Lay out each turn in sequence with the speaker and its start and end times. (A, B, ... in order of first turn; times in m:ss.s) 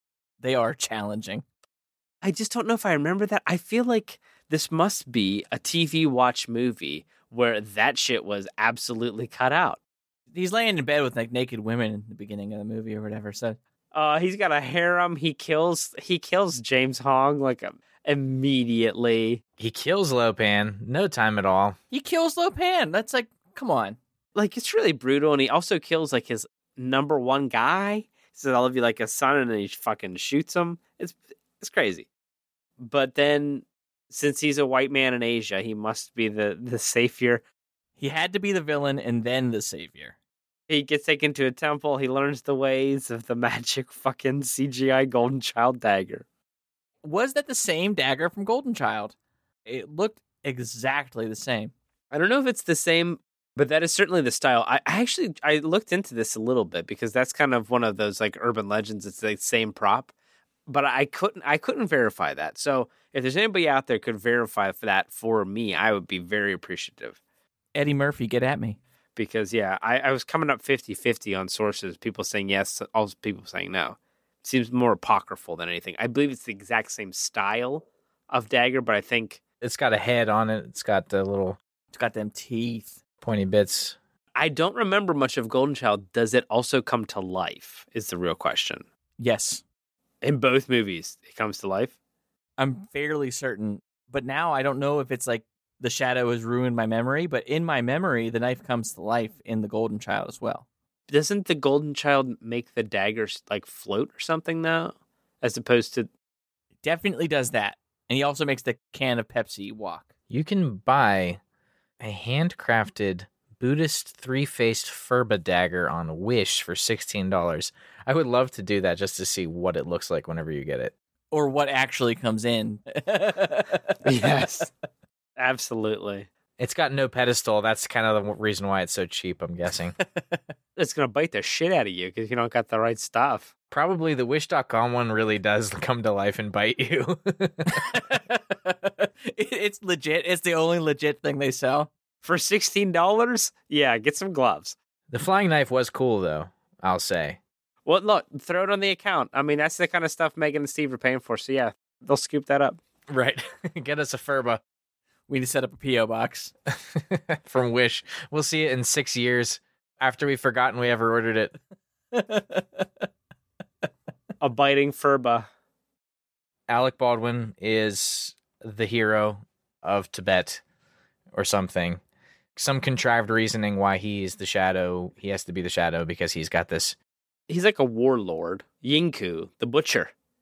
0:00.4-0:01.4 A
0:02.2-0:09.8 B
0:10.3-0:13.6 A
0:13.9-0:19.4 B
0:19.6-0:21.8 C
0:21.9-0:24.0 A
0:24.4-0:32.1 B
0:32.8-0:37.4 B
0:38.0-0:40.1 A
0:40.7-0:46.2 B
0:47.0-0:49.1 A
0:49.7-0:51.7 A
0:52.1-1:00.1 B
1:00.7-1:07.2 B
1:07.8-1:08.8 A
1:09.2-1:19.4 B
1:19.6-1:21.6 C
1:21.9-1:23.0 A
1:23.2-1:24.0 C
1:24.4-1:28.8 B
1:29.2-1:29.6 A
1:30.2-1:32.0 B
1:32.6-1:40.6 A
1:41.1-1:46.1 B
1:46.8-1:50.1 A
1:50.3-1:51.4 C
1:52.0-2:00.9 C
2:01.3-2:04.0 A
2:04.0-2:04.7 B
2:05.4-2:06.3 B
2:06.6-2:10.0 C
2:10.1-2:10.5 A
2:10.8-2:13.5 B
2:13.7-2:17.8 C
2:17.8-2:21.9 A
2:22.2-2:24.8 B
2:25.1-2:27.4 C
2:27.9-2:32.8 B
2:33.1-2:34.6 C
2:35.3-2:36.5 A
2:36.9-2:41.5 C
2:42.1-2:43.1 A
2:44.4-2:45.5 B
2:46.7-2:50.6 C
2:51.3-2:52.0 C
2:52.6-2:57.0 C
2:57.5-3:00.1 B